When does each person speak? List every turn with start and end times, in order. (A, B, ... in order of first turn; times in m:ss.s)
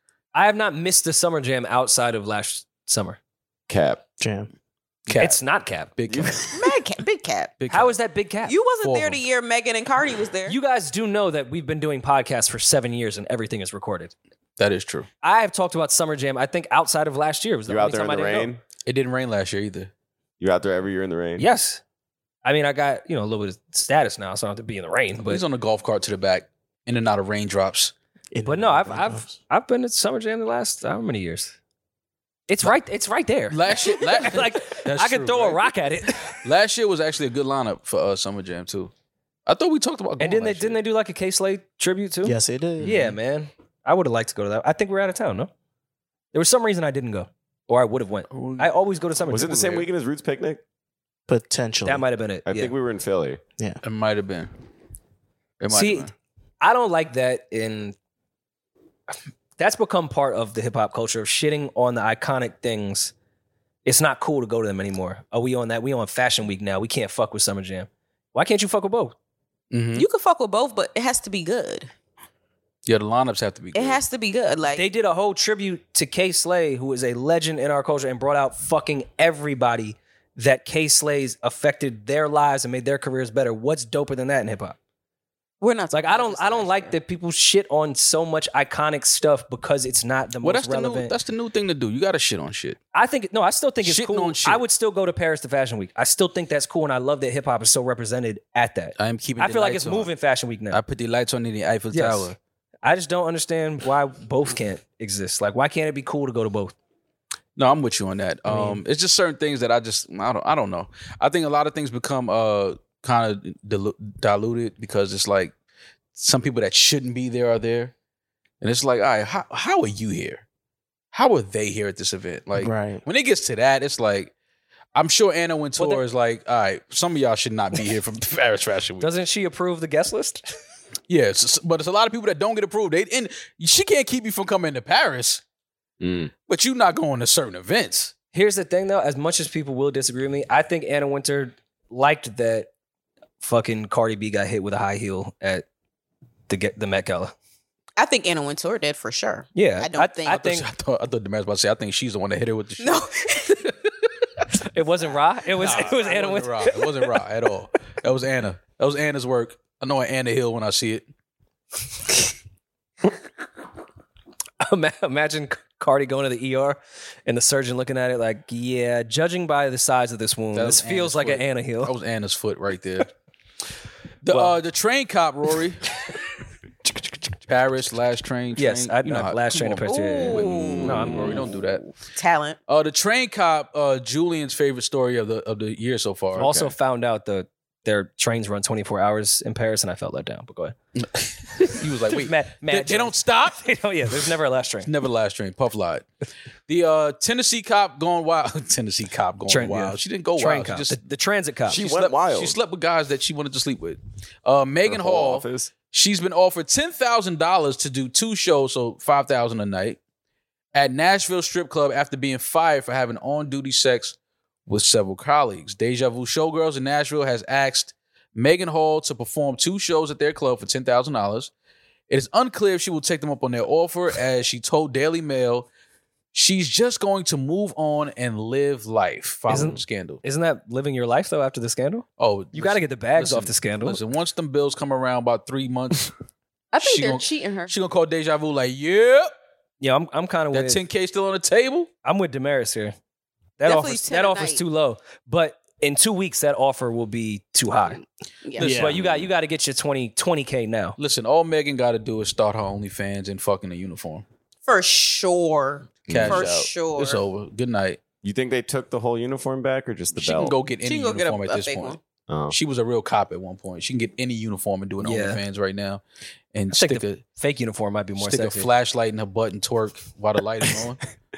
0:00.3-0:03.2 A
0:03.7-0:04.0 B
0:04.2-0:04.5 C
0:05.1-0:05.4 D
0:05.2-0:05.9 A
0:06.0-0:06.7 D
0:06.1-0:06.4 B
0:06.5-0:07.6 E
0:07.6-0:08.0 D
0:07.7-0:08.6 A
0:08.5-0:10.6 E
0:08.8-0:09.2 D
0:10.5-0:14.1 A
0:14.6-0:15.1 D
0:15.2-0:18.5 A
0:17.7-0:18.6 B
0:18.9-0:19.9 D
0:20.4-0:21.5 B
0:21.4-0:21.8 A
0:22.4-0:25.4 A
0:25.3-0:27.9 D
0:28.3-0:29.3 C
0:28.4-0:31.6 A
0:32.5-0:36.4 A
0:33.5-0:35.6 D
0:36.4-0:38.9 D
0:39.5-0:40.8 D
0:40.2-0:45.5 A
0:42.2-0:43.1 C
0:46.3-0:49.9 A
0:48.3-0:48.7 D
0:49.3-0:50.6 B
0:51.3-0:52.1 C
0:51.8-0:52.7 A
0:52.4-0:53.4 B
0:53.8-0:54.5 D
0:55.6-0:56.1 D
0:55.7-0:58.0 A
0:59.6-1:03.1 A
1:03.8-1:09.2 A
1:09.7-1:10.1 D
1:10.0-1:11.9 E
1:12.9-1:14.0 D
1:13.7-1:14.9 E
1:14.7-1:24.8 A
1:25.6-1:27.0 E
1:25.9-1:31.1 A
1:30.4-1:32.8 D
1:32.9-1:40.8 A
1:33.8-1:34.6 D
1:39.0-1:40.1 D
1:40.7-1:42.4 D
1:41.9-1:46.8 A
1:47.6-1:55.5 D
1:56.2-1:57.9 D
1:58.6-2:00.4 D
2:01.1-2:04.3 D
2:02.6-2:03.0 C
2:05.0-2:09.1 D
2:05.8-2:06.0 A
2:09.0-2:10.6 A
2:11.1-2:15.4 D
2:16.0-2:16.3 B
2:16.5-2:18.1 D
2:18.3-2:22.7 A
2:23.4-2:25.6 A
2:26.5-2:27.3 A
2:28.0-2:30.4 E
2:29.6-2:30.7 A
2:30.3-2:33.9 D
2:32.8-2:33.7 E
2:34.7-2:37.2 A
2:35.5-2:41.1 D
2:44.6-2:51.9 A
2:50.5-2:53.1 D
2:54.2-2:55.8 D
2:54.3-2:54.6 A
2:57.5-3:01.8 D
2:58.6-3:01.4 A
2:59.9-3:00.8 E
3:00.3-3:01.2 B
3:02.2-3:02.6 E
3:02.7-3:06.7 D
3:06.4-3:10.8 A
3:06.4-3:06.6 B
3:11.0-3:13.6 D
3:11.6-3:14.9 A
3:14.8-3:16.1 D
3:16.7-3:21.0 D
3:19.5-3:21.8 A
3:21.7-3:22.6 B
3:21.8-3:30.0 D
3:24.9-3:25.7 B
3:30.7-3:34.2 D
3:34.7-3:41.5 D
3:42.1-3:45.7 D
3:46.3-3:50.2 D
3:49.5-3:54.0 A
3:52.2-3:56.1 D
3:56.7-3:57.7 E
3:56.8-3:59.3 D
3:59.8-4:00.8 A
4:00.5-4:01.9 D
4:02.0-4:03.0 A
4:03.6-4:08.0 A
4:03.7-4:04.6 E
4:08.6-4:08.9 D
4:08.6-4:09.0 C
4:08.6-4:11.0 A
4:09.0-4:09.3 B
4:11.0-4:14.2 D
4:14.7-4:17.2 E
4:16.1-4:16.5 B
4:16.1-4:18.0 D
4:18.2-4:20.6 B
4:20.2-4:22.0 D
4:20.8-4:22.0 E
4:22.3-4:22.6 B
4:22.5-4:26.0 D
4:25.0-4:25.4 A
4:26.5-4:27.2 D
4:26.7-4:28.7 A
4:28.2-4:31.0 D